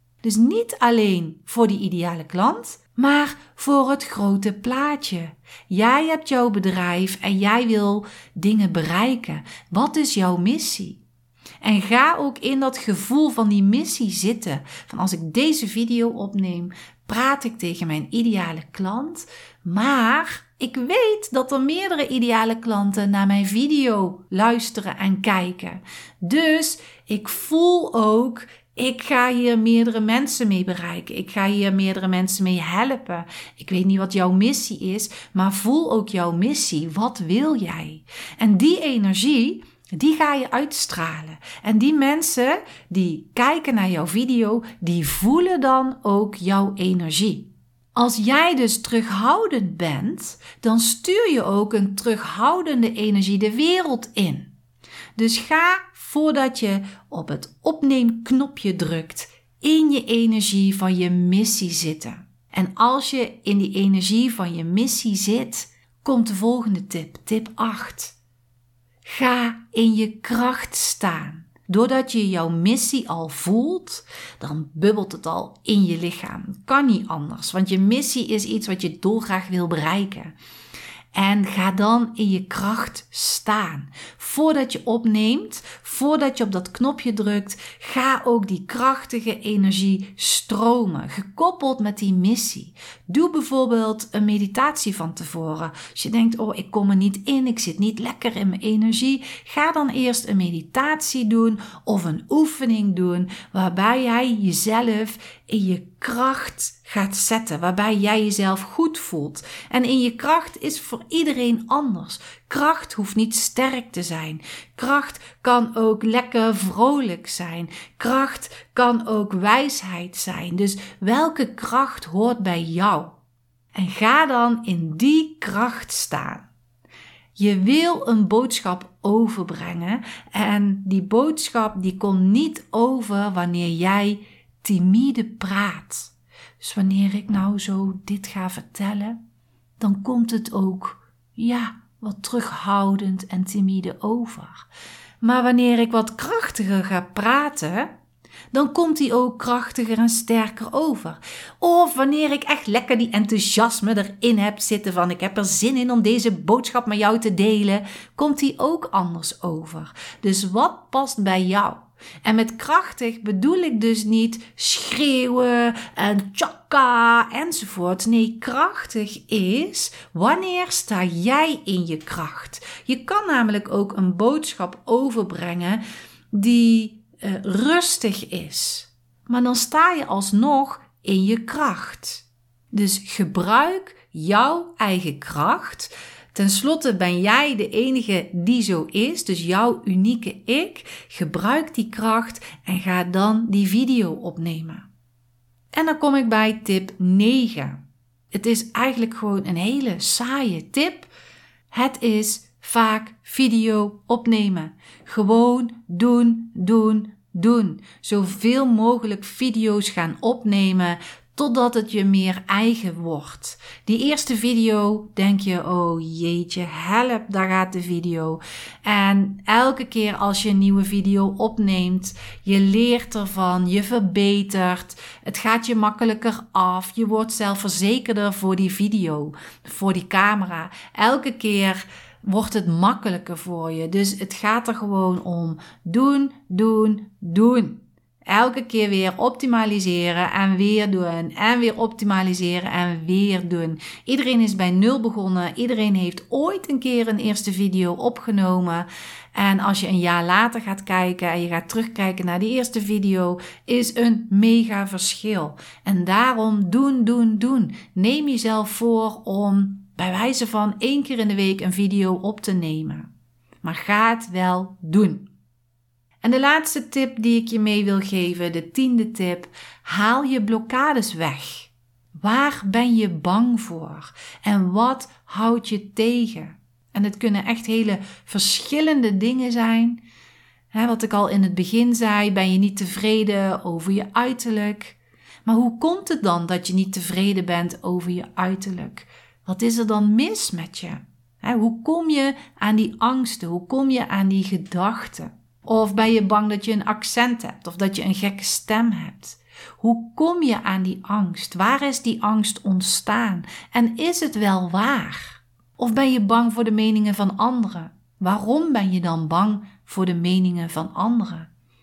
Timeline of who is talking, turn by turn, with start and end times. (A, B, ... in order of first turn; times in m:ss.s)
0:00.2-0:11.0 A
0:11.6-0:54.5 A
0:55.2-1:08.2 A
1:09.0-1:20.3 A
1:21.1-2:03.2 A
2:03.7-2:06.5 A
2:07.4-2:19.2 A
2:19.8-2:24.7 A
2:25.2-2:27.9 A
2:28.5-2:55.8 A
2:56.3-3:14.9 A
3:15.7-3:17.8 A
3:18.3-3:21.1 A
3:21.7-4:23.1 A
4:23.6-4:25.3 A
4:26.2-4:40.0 A
4:40.7-5:11.5 A